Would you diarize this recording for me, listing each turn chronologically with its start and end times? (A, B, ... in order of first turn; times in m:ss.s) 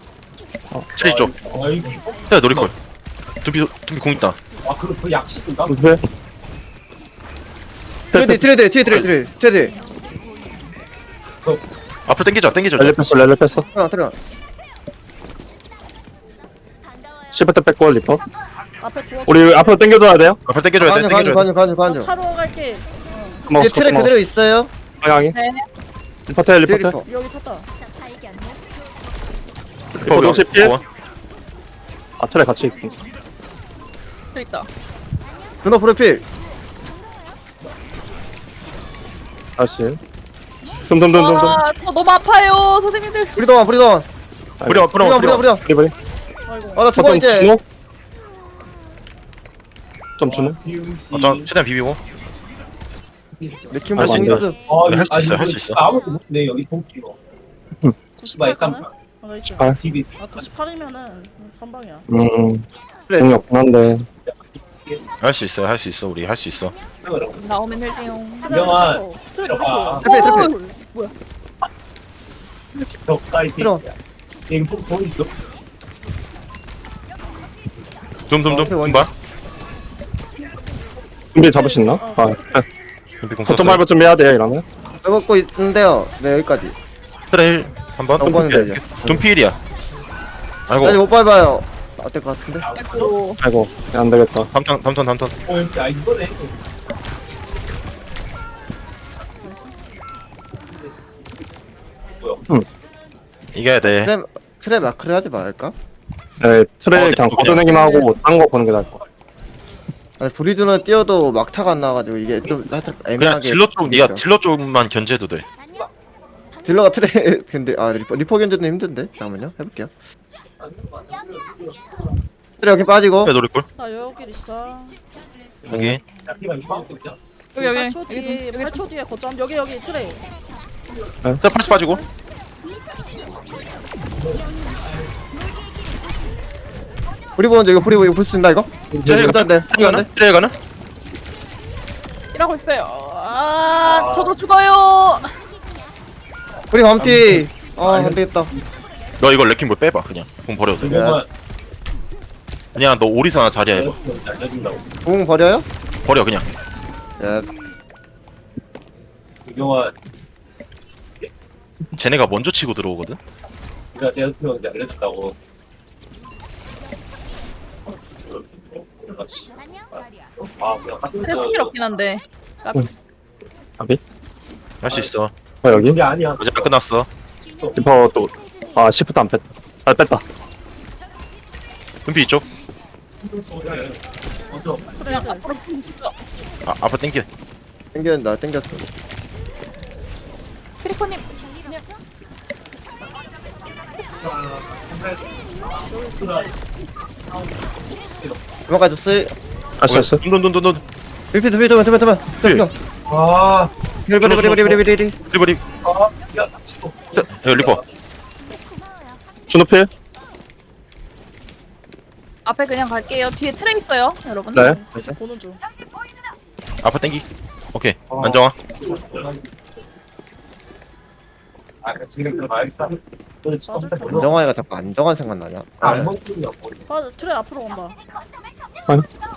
0:01.0-0:01.4 A
0:01.0-0:02.7 B
0:02.3-0:02.7 A
0:03.4-0:04.4 A
0:04.6-0:06.0 B
0:05.7-0:06.0 C
0:08.1-0:09.8 D
0:08.1-0:08.4 C
0:12.1-0:13.0 A
0:12.8-0:13.7 C
0:13.7-0:14.2 D
0:17.3-0:18.2 C
0:18.8-0:20.0 E
0:19.3-0:20.4 C
0:20.5-0:21.5 A
0:20.8-0:22.1 D
0:21.8-0:23.5 E
0:23.5-0:24.1 C
0:23.6-0:24.7 D
0:25.0-0:25.4 C
0:25.3-0:25.6 F
0:26.3-0:27.0 C
0:26.7-0:27.1 D
0:27.1-0:27.7 E
0:30.0-0:30.8 C
0:30.0-0:30.8 A
0:32.2-0:33.0 C
0:34.3-0:34.7 F
0:35.6-0:36.2 D
0:39.6-0:40.0 C
0:40.9-0:41.6 C
0:41.1-0:43.3 F
0:43.4-0:44.1 D
0:44.6-0:45.1 C
0:44.7-0:45.4 A
0:44.9-0:45.6 D
0:45.6-0:45.9 C
0:46.5-0:46.9 E
0:46.8-0:47.5 D
0:46.9-0:47.6 C
0:50.2-0:50.6 C
0:50.3-0:51.5 B
0:51.1-0:52.0 A
0:53.7-0:54.6 D
0:54.0-0:54.5 C
0:54.7-0:57.2 B
0:54.8-0:55.8 A
0:58.2-1:02.1 E
0:58.2-0:58.8 B
0:59.8-1:00.4 B
1:02.1-1:02.6 C
1:03.1-1:03.4 D
1:03.2-1:04.1 C
1:04.3-1:05.0 B
1:05.2-1:06.8 A
1:07.0-1:07.5 B
1:07.3-1:08.8 F
1:08.4-1:10.8 E
1:08.5-1:10.1 B
1:10.0-1:10.5 D
1:10.0-1:11.1 F
1:12.8-1:13.9 B
1:13.6-1:13.8 D
1:14.5-1:15.3 B
1:18.3-1:19.1 A
1:18.5-1:19.1 D
1:21.3-1:22.7 C
1:21.4-1:22.6 E
1:23.2-1:23.8 A
1:23.5-1:24.6 C
1:25.0-1:26.8 D
1:27.3-1:29.6 A
1:28.2-1:28.8 D
1:28.2-1:29.2 C
1:30.7-1:31.0 A
1:30.8-1:32.7 D
1:32.7-1:33.2 B
1:32.8-1:33.4 F
1:33.4-1:34.5 C
1:34.5-1:35.3 A
1:35.5-1:36.5 B
1:39.4-1:39.7 E
1:43.6-1:44.1 A
1:43.8-1:45.8 D
1:46.4-1:49.0 C
1:46.9-1:47.7 A
1:47.7-1:48.1 F
1:50.2-1:54.2 D
1:53.2-1:55.4 A
1:56.6-1:59.9 D
2:01.2-2:01.7 B
2:02.6-2:03.3 D
2:03.2-2:03.7 A
2:03.8-2:05.0 E
2:05.7-2:06.0 A
2:06.3-2:07.2 B
2:07.6-2:08.8 F
2:07.6-2:10.2 E
2:11.4-2:12.0 A
2:11.6-2:12.0 E
2:14.2-2:15.0 B
2:17.4-2:20.1 D
2:19.0-2:20.6 A
2:22.3-2:25.3 F
2:23.8-2:24.4 B
2:26.7-2:28.5 D
2:27.0-2:28.6 B
2:29.2-2:31.0 A
2:30.8-2:31.3 B
2:30.8-2:31.2 D
2:32.8-2:34.0 A
2:33.7-2:34.8 B
2:35.0-2:35.7 D
2:36.0-2:36.5 A
2:37.2-2:37.5 D
2:39.5-2:39.9 B
2:42.0-2:43.2 A
2:43.9-2:45.4 B
2:48.8-2:51.8 B
2:51.2-2:52.9 F
2:54.8-2:55.3 A
2:55.6-2:56.0 C
2:55.7-2:56.7 B
2:56.4-2:57.1 A
2:57.8-3:00.2 C
3:02.1-3:02.4 A
3:03.4-3:04.0 B
3:04.5-3:05.0 B
3:05.0-3:05.5 E
3:05.1-3:06.1 F
3:06.6-3:07.3 A
3:07.9-3:08.9 D
3:10.8-3:11.2 F
3:14.2-3:16.6 B
3:15.9-3:16.5 E
3:17.9-3:18.4 B
3:18.7-3:19.3 D
3:19.8-3:20.2 C
3:19.8-3:20.8 A
3:21.3-3:22.7 D
3:23.1-3:23.7 B
3:24.1-3:25.2 D
3:24.2-3:25.6 A
3:25.8-3:27.8 B
3:27.2-3:27.8 A
3:29.5-3:29.9 C
3:32.4-3:34.7 F
3:34.3-3:35.6 E
3:34.5-3:35.0 C
3:36.8-3:38.6 A
3:38.1-3:38.4 C
3:38.8-3:39.4 B
3:41.8-3:44.3 B
3:43.7-3:44.3 E
3:44.0-3:46.2 D
3:45.8-3:46.8 B
3:46.9-3:48.0 E